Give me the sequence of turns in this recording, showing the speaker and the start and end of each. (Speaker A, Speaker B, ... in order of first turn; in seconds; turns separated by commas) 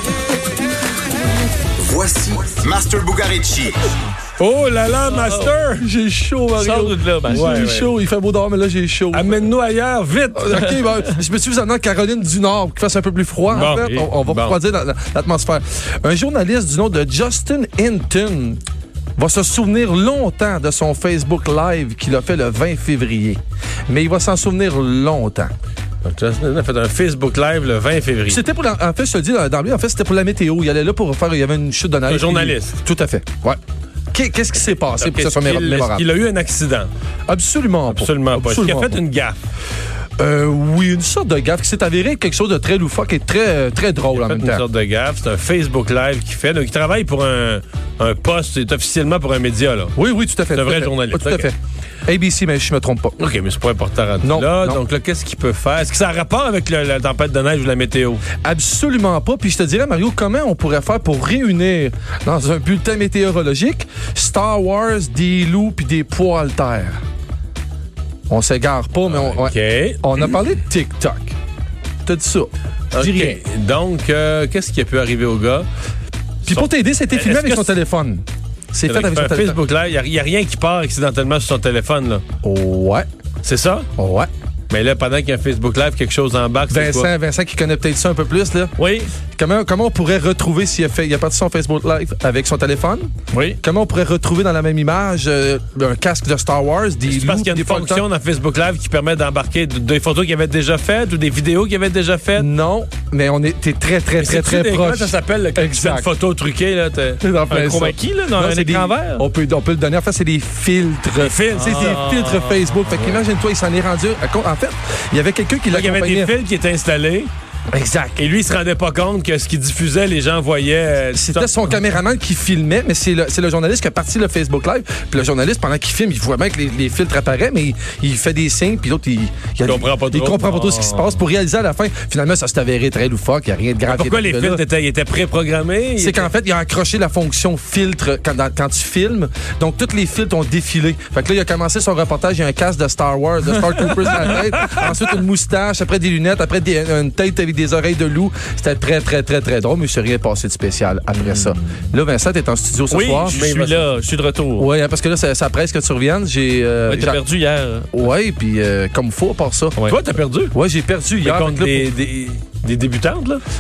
Speaker A: 1.8-3.8, Speaker B: 4.4-5.8, Speaker C: 5.1-5.6, Speaker D: 5.6-9.5, Speaker C: 6.5-7.5, Speaker B: 7.3-7.9, Speaker B: 9.1-10.8, Speaker D: 10.3-18.6, Speaker B: 13.5-14.6, Speaker C: 13.6-14.1, Speaker D: 19.2-25.5, Speaker B: 26.0-28.4, Speaker D: 28.3-33.6, Speaker B: 32.1-32.8, Speaker D: 34.1-36.1, Speaker B: 34.6-36.9, Speaker D: 37.3-39.0, Speaker B: 37.9-39.4, Speaker D: 40.2-44.6, Speaker B: 44.1-50.0, Speaker D: 50.0-51.5, Speaker B: 50.5-51.5, Speaker D: 52.1-53.2, Speaker B: 53.2-58.2, Speaker D: 54.2-54.8, Speaker D: 58.4-67.0, Speaker D: 68.3-71.4, Speaker B: 69.1-70.3, Speaker D: 72.0-73.4, Speaker B: 72.9-75.7, Speaker B: 76.5-77.7, Speaker D: 76.5-79.6, Speaker B: 78.9-82.2, Speaker D: 82.4-83.1, Speaker B: 83.4-83.9, Speaker D: 84.0-84.3, Speaker B: 84.7-87.1, Speaker D: 86.7-88.7, Speaker C: 88.8-89.1, Speaker D: 89.4-98.0, Speaker C: 93.3-93.6, Speaker B: 97.1-102.5, Speaker D: 102.4-106.1, Speaker B: 104.2-107.3, Speaker D: 107.2-116.3, Speaker C: 107.5-109.3, Speaker B: 111.2-112.1, Speaker C: 111.6-113.0, Speaker B: 115.7-117.3, Speaker D: 117.7-118.2, Speaker B: 118.2-121.6, Speaker D: 121.1-134.6, Speaker B: 129.6-131.2, Speaker B: 133.9-136.3, Speaker D: 136.0-153.5, Speaker C: 152.9-154.7, Speaker B: 153.3-153.9, Speaker D: 154.6-157.2, Speaker C: 156.9-158.1, Speaker D: 157.9-159.8, Speaker B: 159.9-160.6, Speaker D: 160.5-161.9, Speaker B: 161.2-163.4